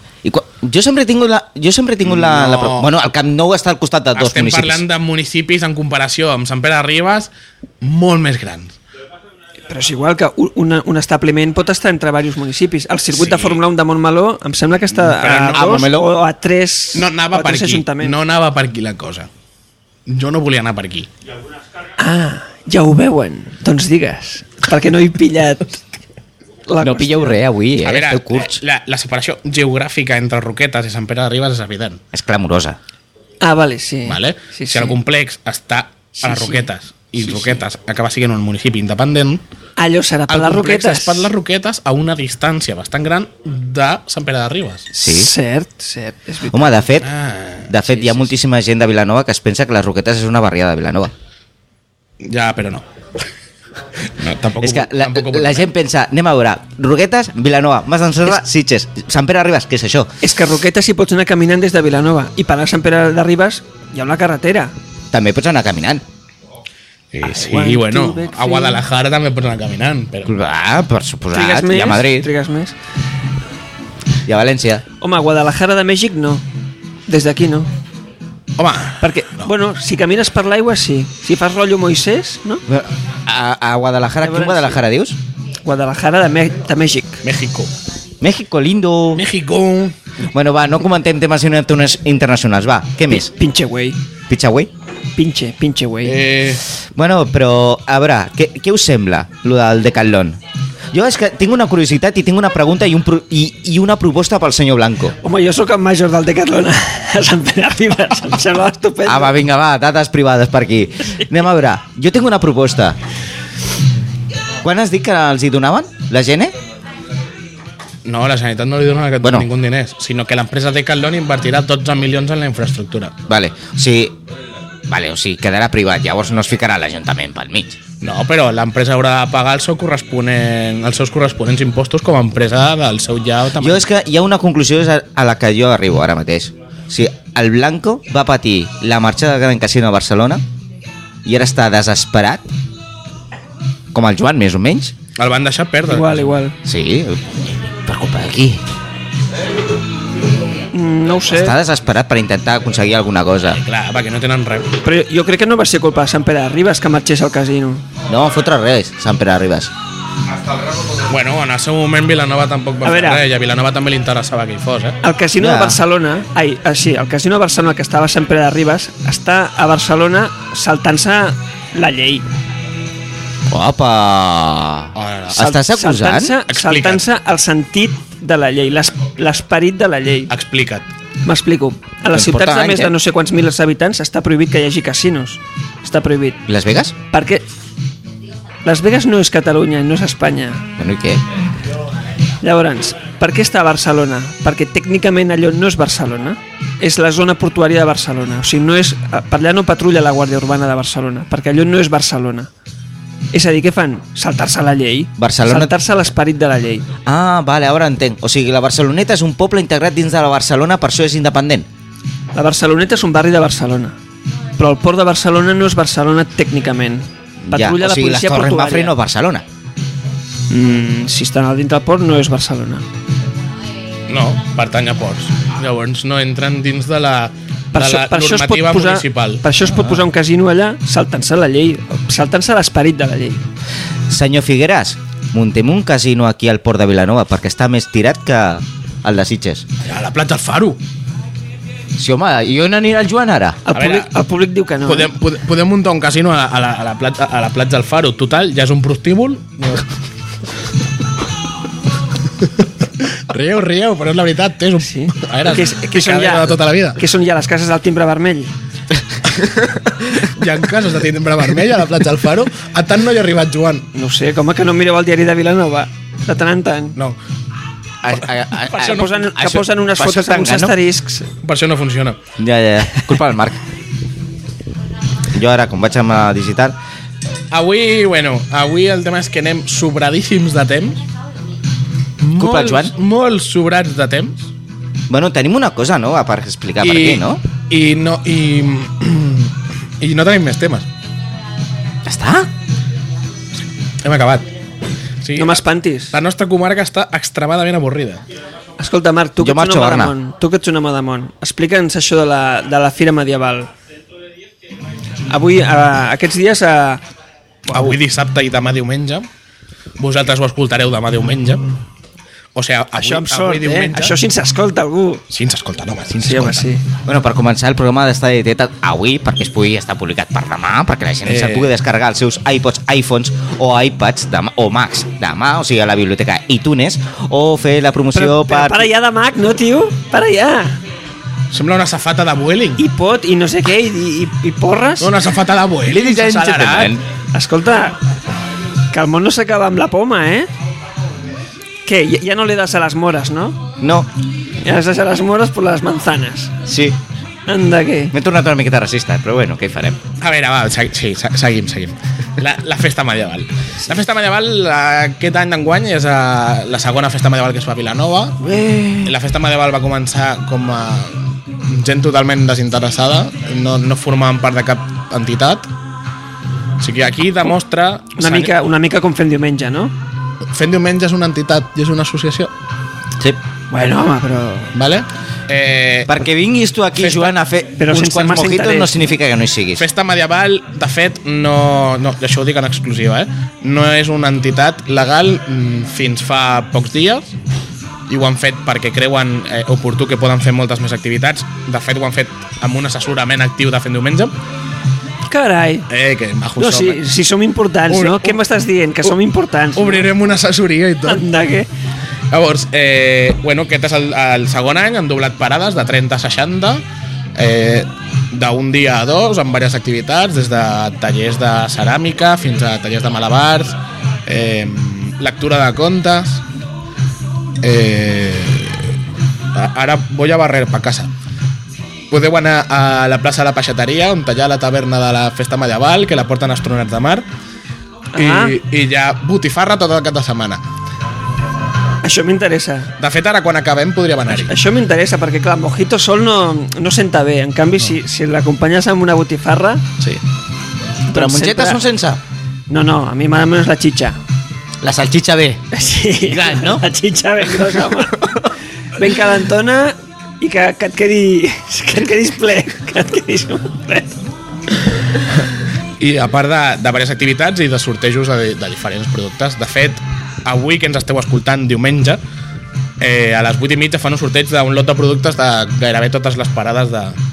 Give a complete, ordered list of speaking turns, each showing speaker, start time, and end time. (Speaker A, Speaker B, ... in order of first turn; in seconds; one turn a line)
Speaker A: 0.2-4.8
Speaker B: 2.0-2.9
Speaker B: 4.2-7.3
Speaker B: 7.8-8.7
Speaker C: 9.7-18.2
Speaker B: 13.2-13.6
Speaker B: 15.0-15.9
Speaker A: 15.5-16.1
Speaker B: 16.9-19.3
Speaker B: 20.1-21.1
Speaker C: 22.0-25.8
Speaker C: 26.7-27.4
Speaker A: 26.8-28.6
Speaker B: 27.8-32.0
Speaker A: 32.1-32.8
Speaker C: 33.4-35.0
Speaker B: 34.1-39.4
Speaker C: 36.2-36.6
Speaker C: 39.8-41.3
Speaker B: 40.3-44.9
Speaker A: 44.9-45.3
Speaker C: 45.0-46.8
Speaker A: 46.5-47.1
Speaker B: 47.0-47.8
Speaker A: 47.7-51.1
Speaker B: 52.2-52.9
Speaker B: 54.0-55.7
Speaker A: 54.6-60.1
Speaker C: 60.2-64.7
Speaker A: 65.1-66.0
Speaker B: 67.1-70.3
Speaker C: 67.2-68.8
Speaker A: 70.3-72.3
Speaker C: 71.3-72.8
Speaker A: 74.3-74.8
Speaker C: 75.0-76.4
Speaker C: 77.1-77.7
Speaker B: 78.6-79.5
Speaker C: 79.0-82.6
Speaker A: 82.7-85.2
Speaker C: 84.2-84.8
Speaker C: 85.7-87.2
Speaker B: 87.2-87.7
Speaker A: 88.2-89.2
Speaker B: 89.2-90.0
Speaker A: 90.3-93.3
Speaker C: 93.1-94.0
Speaker A: 94.3-94.7
Speaker C: 95.2-96.2
Speaker B: 96.0-96.6
Speaker A: 96.9-100.4
Speaker A: 100.9-105.2
Speaker C: 105.2-109.4
Speaker A: 109.0-113.0
Speaker A: 114.6-116.5
Speaker B: 118.0-123.1
Speaker A: 119.2-119.5
Speaker A: 123.3-124.2
Speaker A: 124.9-127.8
Speaker B: 128.0-133.9
Speaker A: 133.6-140.4
Speaker A: 141.2-142.5
Speaker A: 143.9-144.9
Speaker B: 145.2-146.3
Speaker C: 145.9-146.6
Speaker A: 146.7-147.2
Speaker A: 147.9-148.6
Speaker C: 150.7-151.6
Speaker A: 151.3-153.6
Speaker B: 153.6-154.8
Speaker C: 154.8-157.8
Speaker A: 158.1-159.7
Speaker B: 161.1-165.0
Speaker C: 162.8-163.2
Speaker C: 165.0-172.3
Speaker A: 165.4-165.8
Speaker A: 173.5-176.4
Speaker B: 175.0-175.5
Speaker C: 175.4-180.3
Speaker B: 176.5-177.0
Speaker B: 180.3-180.9
Speaker C: 181.2-186.4
Speaker A: 182.1-182.9
Speaker A: 186.5-186.9
Speaker C: 187.1-187.4
Speaker C: 188.7-190.7
Speaker A: 190.8-191.2
Speaker C: 192.4-202.5
Speaker C: 203.3-206.9
Speaker A: 205.2-205.7
Speaker A: 207.1-211.7
Speaker C: 212.3-214.0
Speaker C: 214.6-218.9
Speaker A: 217.4-219.4
Speaker C: 220.5-222.8
Speaker B: 224.1-229.4
Speaker C: 227.7-233.4
Speaker A: 229.7-230.0
Speaker A: 234.1-239.7
Speaker B: 239.8-240.8
Speaker A: 242.0-243.6
Speaker C: 243.7-245.1
Speaker B: 243.8-244.1
Speaker B: 244.8-249.9
Speaker B: 253.0-257.0
Speaker C: 254.8-258.5
Speaker B: 260.0-263.9
Speaker C: 263.9-267.0
Speaker A: 268.0-270.8
Speaker B: 268.2-269.2
Speaker C: 268.8-271.3
Speaker B: 271.4-272.2
Speaker A: 272.4-273.6
Speaker A: 275.3-276.8
Speaker B: 277.5-281.0
Speaker B: 282.2-284.5
Speaker A: 282.4-282.9
Speaker A: 285.1-287.4
Speaker B: 286.8-290.9
Speaker A: 292.1-292.5
Speaker B: 294.0-294.5
Speaker B: 295.2-298.2
Speaker C: 295.4-296.1
Speaker C: 298.8-303.7
Speaker A: 299.4-300.1
Speaker C: 305.3-307.0
Speaker B: 307.7-309.3
Speaker B: 310.0-311.7
Speaker B: 312.6-314.1
Speaker C: 312.9-315.2
Speaker B: 315.3-316.7
Speaker C: 316.2-316.8
Speaker A: 317.1-328.9
Speaker B: 321.3-321.7
Speaker C: 328.1-330.8
Speaker B: 331.5-332.8
Speaker C: 332.8-335.1
Speaker B: 335.0-336.9
Speaker A: 335.9-337.0
Speaker C: 337.3-338.0
Speaker C: 338.9-340.5
Speaker C: 341.9-343.6
Speaker A: 343.8-344.1
Speaker C: 344.6-346.5
Speaker A: 346.6-347.0
Speaker C: 347.5-348.1
Speaker A: 348.1-350.0
Speaker B: 350.2-358.4
Speaker A: 358.4-359.1
Speaker B: 359.0-365.7
Speaker B: 366.8-368.5
Speaker C: 368.2-369.9
Speaker B: 370.5-372.5
Speaker C: 373.7-374.7
Speaker B: 374.8-376.1
Speaker A: 376.1-379.9
Speaker B: 377.0-377.4
Speaker C: 377.8-378.9
Speaker B: 379.8-387.3
Speaker B: 388.1-394.3
Speaker C: 395.3-395.9
Speaker B: 395.9-397.0
Speaker C: 396.6-400.1
Speaker B: 397.9-398.4
Speaker B: 399.8-401.2
Speaker C: 401.1-401.7
Speaker B: 402.3-406.8
Speaker B: 407.4-416.4
Speaker B: 417.6-418.9
Speaker B: 419.6-421.1
Speaker B: 422.1-427.2
Speaker C: 428.1-428.6
Speaker B: 428.2-430.6
Speaker C: 432.0-432.9
Speaker B: 433.0-434.5
Speaker C: 434.4-439.9
Speaker C: 441.1-441.8
Speaker A: 441.1-442.2
Speaker C: 442.7-444.2
Speaker A: 444.8-445.6
Speaker C: 445.7-448.4
Speaker A: 446.3-446.8
Speaker A: 448.1-448.5
Speaker C: 449.0-454.2
Speaker B: 456.0-462.2
Speaker B: 463.0-467.2